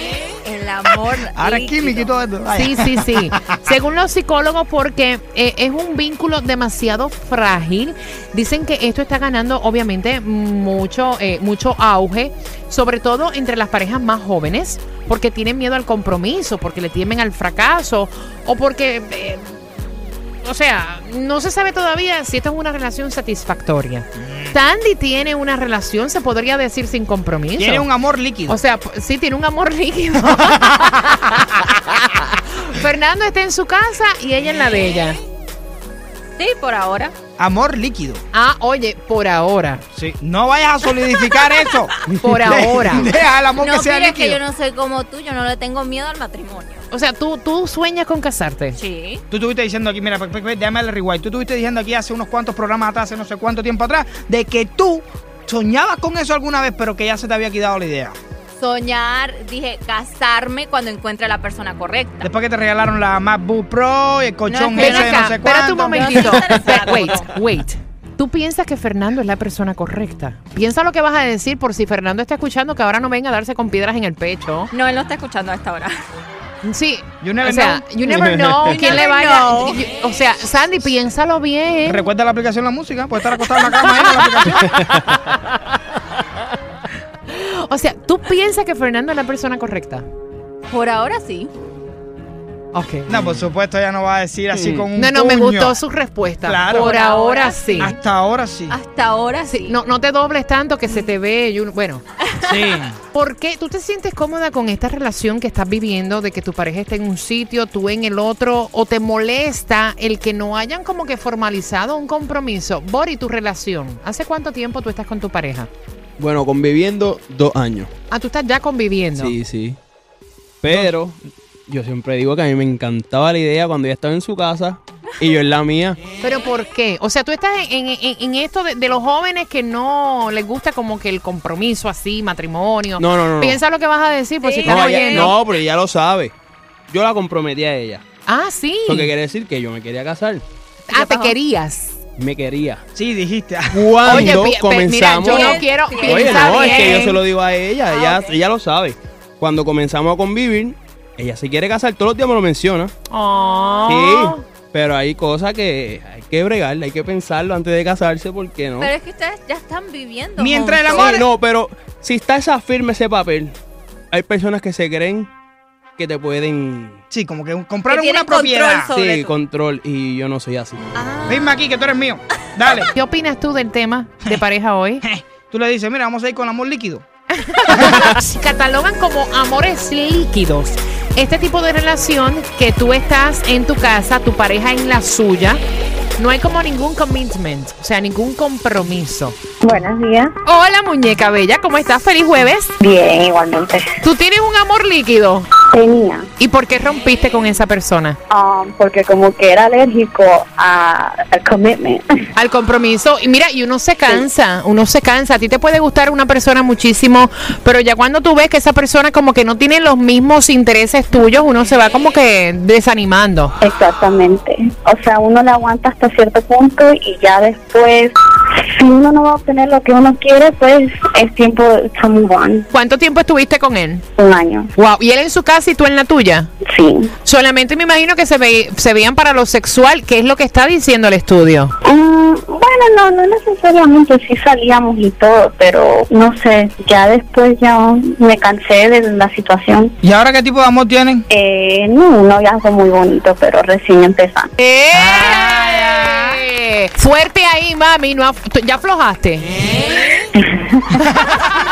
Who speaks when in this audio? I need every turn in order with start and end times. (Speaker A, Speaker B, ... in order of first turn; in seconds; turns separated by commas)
Speaker A: 0.4-2.1, Speaker B: 1.3-3.6, Speaker C: 2.5-27.9, Speaker B: 24.2-24.6, Speaker B: 27.6-28.6, Speaker C: 28.5-35.2, Speaker A: 36.4-37.1, Speaker B: 37.4-38.2, Speaker C: 38.3-39.8, Speaker B: 39.9-44.4, Speaker C: 42.1-43.1, Speaker A: 43.5-46.8, Speaker C: 46.9-48.8, Speaker A: 48.7-49.2, Speaker B: 49.3-58.2, Speaker A: 58.6-62.3, Speaker B: 62.2-66.1, Speaker A: 64.5-65.3, Speaker C: 64.8-74.7, Speaker A: 65.9-67.3, Speaker A: 74.7-76.0, Speaker C: 76.6-82.1, Speaker B: 77.2-77.9, Speaker D: 78.1-78.6, Speaker A: 78.6-79.8, Speaker B: 81.9-84.6, Speaker C: 83.8-85.0, Speaker D: 84.6-85.1, Speaker C: 87.3-90.0, Speaker A: 90.7-91.5, Speaker C: 92.7-93.1, Speaker B: 93.1-95.8, Speaker D: 94.5-94.8, Speaker C: 94.9-97.9, Speaker B: 96.4-96.9, Speaker A: 96.7-98.0, Speaker B: 97.8-98.8, Speaker A: 98.7-99.7, Speaker C: 99.5-102.0, Speaker B: 102.4-103.0, Speaker C: 103.1-115.7, Speaker D: 116.2-117.9, Speaker C: 118.1-119.4, Speaker D: 119.1-119.8, Speaker D: 120.6-126.0, Speaker C: 126.2-135.3, Speaker D: 133.0-133.6, Speaker A: 134.4-135.3, Speaker D: 134.7-136.3, Speaker D: 136.9-138.0, Speaker C: 138.3-139.1, Speaker D: 138.9-140.4, Speaker C: 140.9-141.9, Speaker A: 140.9-141.3, Speaker D: 142.2-142.8, Speaker B: 142.9-143.9, Speaker D: 143.7-152.9, Speaker C: 144.0-147.2, Speaker A: 145.2-147.1, Speaker A: 147.9-148.3, Speaker C: 153.1-154.4, Speaker A: 153.4-154.0, Speaker D: 153.9-158.9, Speaker A: 158.8-161.2, Speaker B: 160.4-161.3, Speaker D: 160.9-163.5, Speaker D: 164.1-165.3, Speaker D: 166.0-167.0, Speaker B: 167.1-168.9, Speaker A: 167.9-169.3, Speaker D: 168.9-170.8, Speaker A: 170.9-171.6, Speaker B: 171.2-172.9, Speaker C: 172.9-175.0, Speaker B: 175.0-177.0, Speaker C: 177.3-185.6, Speaker C: 186.2-189.4, Speaker E: 189.6-190.3, Speaker C: 190.4-192.8, Speaker E: 192.8-193.9, Speaker C: 194.0-195.5, Speaker E: 195.7-196.3, Speaker C: 196.4-198.2, Speaker E: 198.3-202.0, Speaker C: 202.3-213.5, Speaker E: 213.6-222.7, Speaker C: 222.7-224.0, Speaker E: 224.2-224.7, Speaker C: 224.8-226.5, Speaker E: 226.7-227.1, Speaker C: 227.2-231.7, Speaker E: 231.8-239.9, Speaker B: 240.0-241.2, Speaker E: 241.3-244.5, Speaker C: 244.6-249.5, Speaker B: 244.9-246.2, Speaker E: 250.4-250.8